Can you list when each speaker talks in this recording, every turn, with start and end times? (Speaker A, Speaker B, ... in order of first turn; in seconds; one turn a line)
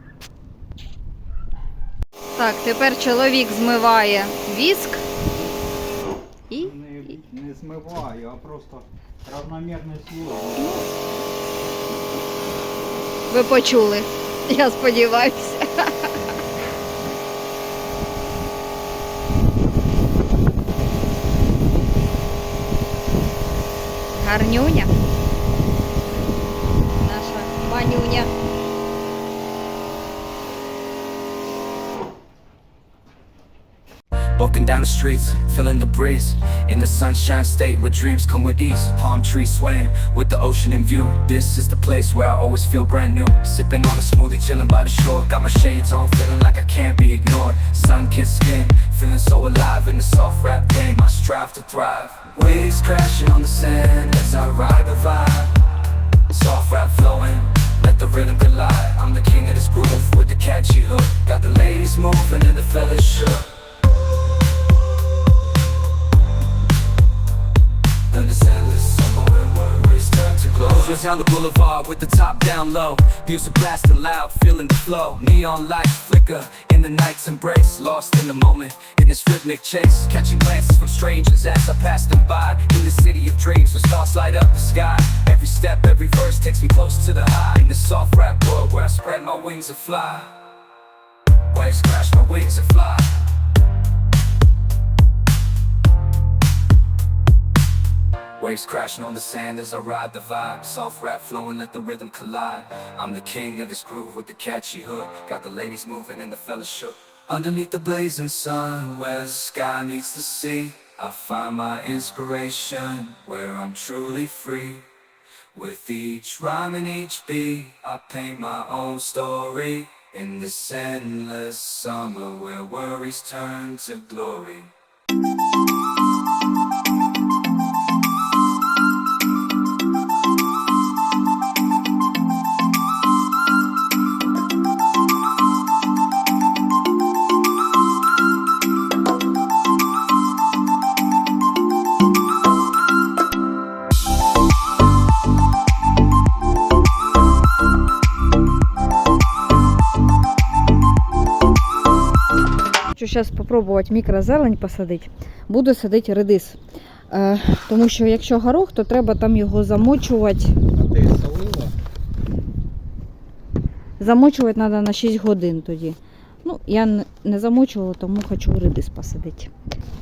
Speaker A: 2.4-5.1
Speaker A: 6.5-6.8
Speaker B: 6.6-10.7
Speaker A: 10.6-10.8
Speaker A: 13.3-16.1
Speaker A: 24.2-24.9
Speaker A: 27.0-28.3
Speaker C: 34.3-55.6
Speaker C: 56.3-63.5
Speaker C: 68.1-90.4
Speaker C: 91.5-93.2
Speaker C: 98.4-114.8
Speaker C: 115.5-124.7
Speaker A: 152.9-160.6
Speaker B: 160.8-161.7
Speaker A: 164.0-169.5